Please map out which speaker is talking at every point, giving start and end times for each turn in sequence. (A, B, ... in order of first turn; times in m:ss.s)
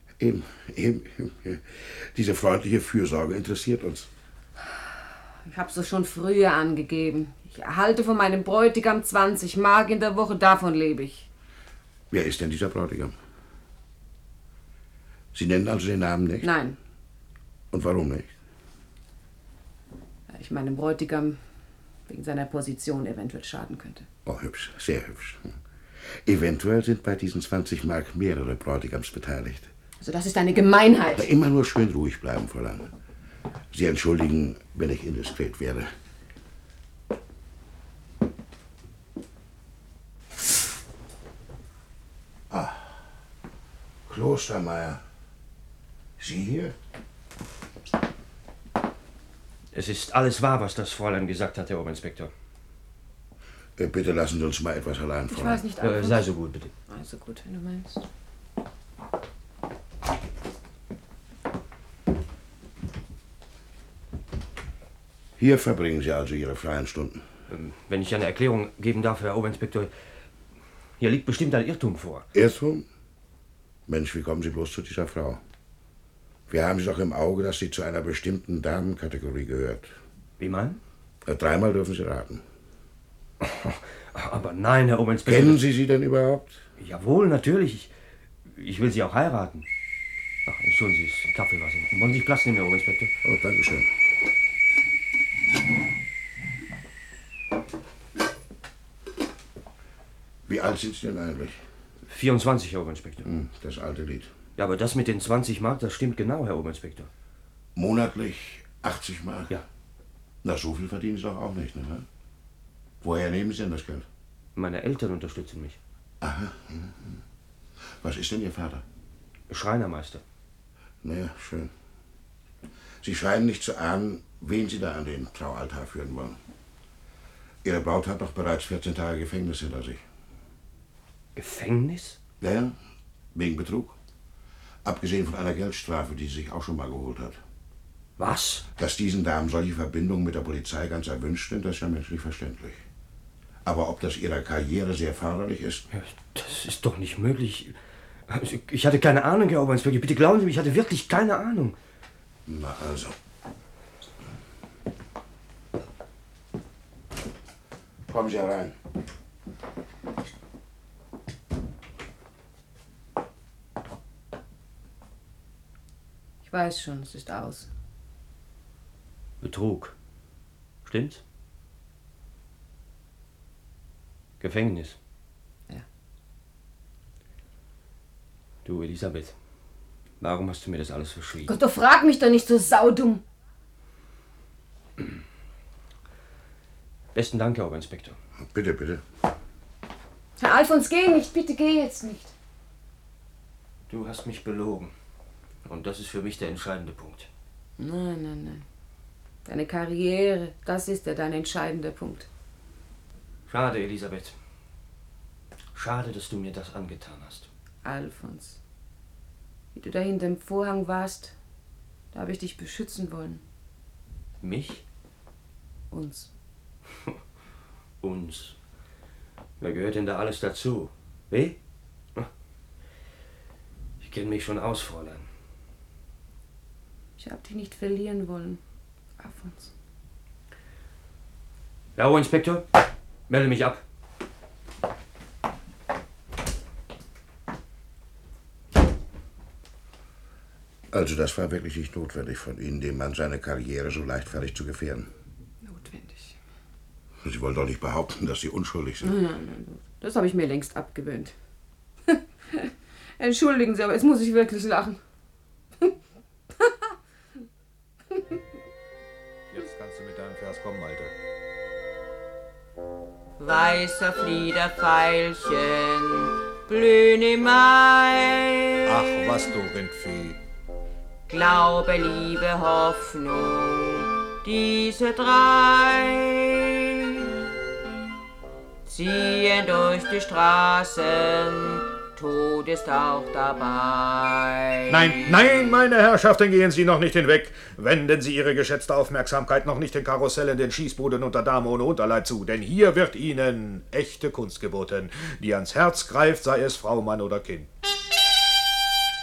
0:00.2-0:04.1 A
0:05.4-0:11.3 B
0:12.1-0:13.1 A
0:15.3-0:16.5 A
0:16.4-0:16.8 B
0:17.7-0:18.3 A
0:20.3-0:21.4 B
0:22.1-0:24.1 B
0:24.3-0:25.6 A
0:26.3-0:29.7 A
0:30.0-0:31.3 B
0:31.1-0:32.9 A
0:33.7-0:35.9 A
0:42.5-0:43.0 A
0:44.1-0:45.0 A
0:46.2-0:46.7 A
0:49.7-0:52.3 C
0:53.8-0:55.7 A
0:55.3-0:56.4 B
0:55.8-0:56.7 C
0:56.9-0:58.0 B
1:05.4-1:07.2 A
1:07.5-1:09.9 C
1:11.0-1:12.3 C
1:12.3-1:12.8 A
1:13.9-1:15.4 A
1:16.5-1:19.9 A
1:20.4-1:20.8 C
1:21.2-1:22.4 A
1:23.4-1:25.6 C
1:25.3-1:26.6 A
1:26.8-1:27.9 C
1:28.5-1:29.7 C
1:30.5-1:33.1 C
1:33.2-1:33.9 A
1:40.5-1:41.6 A
1:42.1-1:43.3 C
1:43.2-1:44.3 A
1:44.6-1:47.1 C
1:47.8-1:49.6 A
1:50.4-1:52.0 A
1:53.0-1:54.0 A
1:54.6-1:55.8 C
1:56.2-1:57.2 A
1:58.0-1:58.8 A
1:59.5-2:00.2 C
2:01.0-2:01.7 A
2:03.0-2:06.4 A
2:07.6-2:10.0 A
2:11.4-2:12.2 C
2:12.4-2:12.8 A
2:13.4-2:14.0 A
2:14.8-2:17.4 A
2:18.2-2:18.7 C
2:18.8-2:22.8 A
2:23.6-2:25.9 A
2:25.9-2:27.8 C
2:28.3-2:31.8 C
2:32.5-2:33.1 A
2:38.1-2:38.7 A
2:46.4-2:47.7 B
2:49.4-2:49.9 C
2:50.8-2:51.2 C
2:54.4-2:55.0 C
2:58.6-2:59.4 C
3:00.2-3:01.6 C
3:01.5-3:03.2 B
3:07.1-3:08.2 C
3:08.4-3:09.0 A
3:10.4-3:12.3 B
3:13.9-3:14.9 C
3:15.6-3:17.3 C
3:17.8-3:18.6 B
3:19.4-3:22.3 B
3:23.5-3:24.4 C
3:25.8-3:27.5 C
3:27.8-3:28.6 B
3:29.7-3:31.4 B
3:32.1-3:33.4 B
3:34.4-3:34.8 C
3:35.9-3:36.3 B
3:38.0-3:38.6 C
3:39.6-3:41.6 C
3:44.0-3:45.3 C
3:47.2-3:48.6 B
3:49.2-3:49.7 B
3:52.0-3:52.7 C
3:53.3-3:53.8 C
4:00.9-4:05.1 A
4:05.6-4:06.4 B
4:07.2-4:09.2 A
4:09.0-4:11.3 B
4:12.1-4:15.0 B
4:19.5-4:21.1 D
4:23.4-4:29.4 E
4:28.9-4:30.4 D
4:31.3-4:36.9 E
4:38.8-4:45.4 E
4:44.9-4:57.7 D